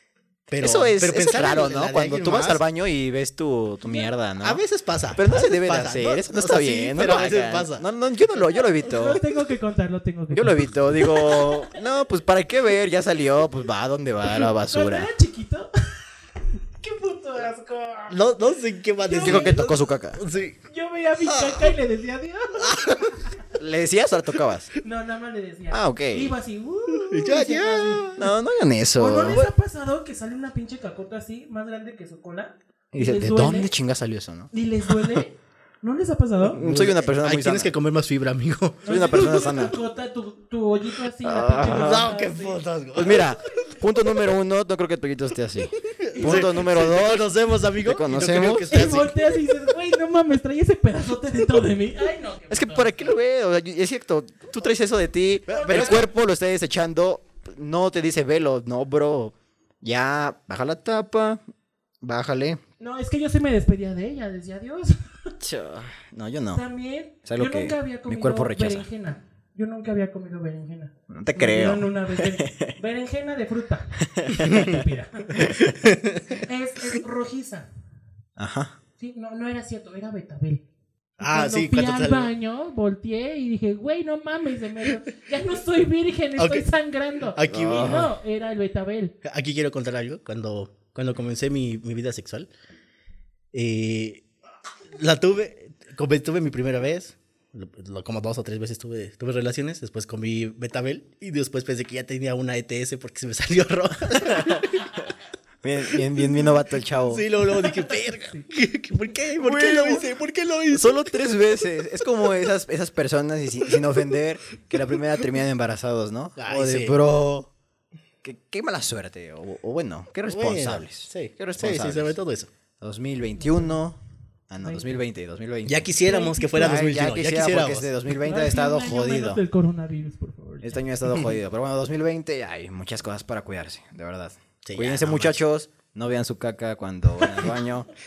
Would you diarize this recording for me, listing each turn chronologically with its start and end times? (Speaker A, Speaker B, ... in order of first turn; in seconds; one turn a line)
Speaker A: 0.5-2.6
Speaker B: 0.6-4.6
Speaker C: 3.8-4.1
Speaker A: 4.4-7.8
Speaker B: 5.1-9.2
Speaker C: 8.5-11.8
Speaker B: 10.3-15.1
Speaker C: 14.3-16.0
Speaker C: 16.8-18.2
Speaker A: 18.1-20.6
Speaker C: 19.0-19.6
Speaker B: 19.2-20.2
Speaker C: 20.7-23.4
Speaker A: 22.6-23.2
Speaker B: 23.6-24.7
Speaker C: 24.8-28.3
Speaker B: 25.7-26.3
Speaker A: 27.0-28.2
Speaker B: 27.5-29.5
Speaker C: 29.0-33.7
Speaker B: 32.9-34.5
Speaker C: 34.5-36.6
Speaker B: 36.5-37.7
Speaker A: 36.6-39.4
Speaker C: 38.8-42.6
Speaker B: 38.9-39.8
Speaker B: 41.2-42.1
Speaker A: 41.6-43.4
Speaker B: 42.9-49.0
Speaker C: 43.5-43.8
Speaker A: 45.9-49.1
Speaker C: 46.1-46.6
Speaker C: 48.7-53.1
Speaker B: 52.5-61.4
Speaker A: 55.5-56.1
Speaker C: 55.5-56.1
Speaker B: 62.0-62.6
Speaker C: 62.8-65.3
Speaker B: 65.4-66.6
Speaker C: 66.5-75.5
Speaker B: 67.3-68.9
Speaker B: 71.1-72.8
Speaker B: 74.0-74.8
Speaker A: 75.5-76.4
Speaker C: 76.4-77.7
Speaker B: 78.4-78.8
Speaker C: 79.0-80.6
Speaker A: 81.2-82.3
Speaker C: 81.2-89.1
Speaker A: 86.4-86.7
Speaker A: 87.3-88.1
Speaker B: 87.5-88.1
Speaker A: 89.2-92.5
Speaker A: 93.5-94.2
Speaker A: 94.9-104.9
Speaker B: 105.6-107.2
Speaker A: 105.9-111.4
Speaker C: 107.8-108.5
Speaker B: 109.4-110.1
Speaker B: 110.7-117.5
Speaker A: 116.4-117.0
Speaker B: 118.2-122.2
Speaker A: 120.3-122.5
Speaker B: 122.8-124.0
Speaker C: 123.4-123.8
Speaker B: 124.5-125.9
Speaker C: 124.6-125.0
Speaker A: 125.7-127.9
Speaker C: 126.0-126.8
Speaker B: 126.6-129.4
Speaker C: 128.1-131.3
Speaker B: 130.6-137.9
Speaker A: 134.6-135.4